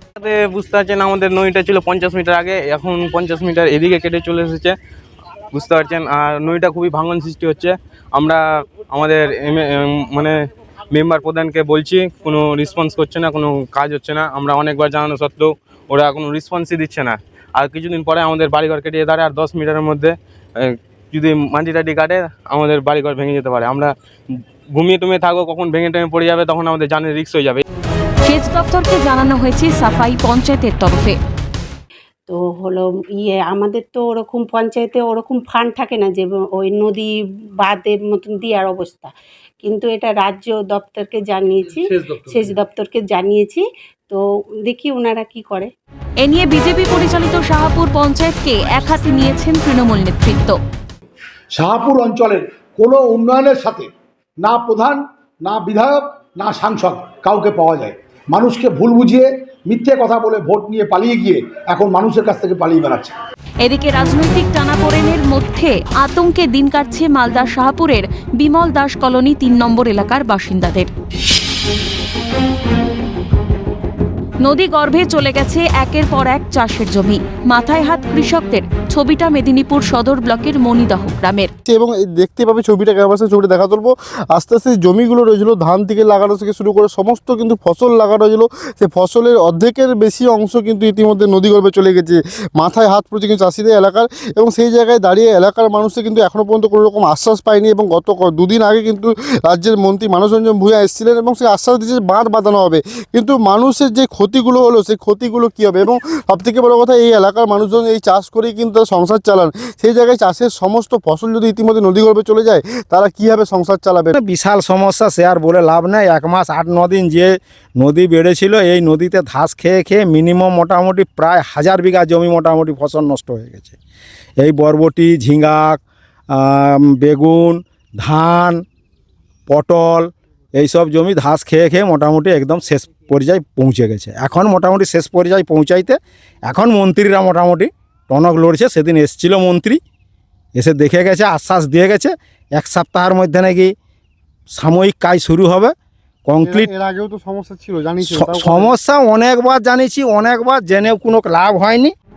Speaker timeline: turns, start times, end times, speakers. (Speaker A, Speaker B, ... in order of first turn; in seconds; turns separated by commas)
Speaker A: 0.2-4.7, Speaker A: 5.5-10.4, Speaker A: 10.9-23.9, Speaker A: 24.7-27.6, Speaker B: 28.2-31.2, Speaker C: 32.3-37.1, Speaker C: 37.6-39.1, Speaker C: 39.6-45.7, Speaker B: 46.2-50.6, Speaker D: 51.5-53.9, Speaker D: 54.4-63.1, Speaker B: 63.6-70.9, Speaker B: 74.4-81.5, Speaker E: 81.7-114.1, Speaker F: 114.1-123.8, Speaker F: 124.4-125.8, Speaker F: 126.3-128.6, Speaker F: 129.5-139.8, Speaker F: 140.6-143.7, Speaker F: 144.5-145.7, Speaker F: 146.2-146.7, Speaker E: 146.4-148.7, Speaker F: 148.1-151.9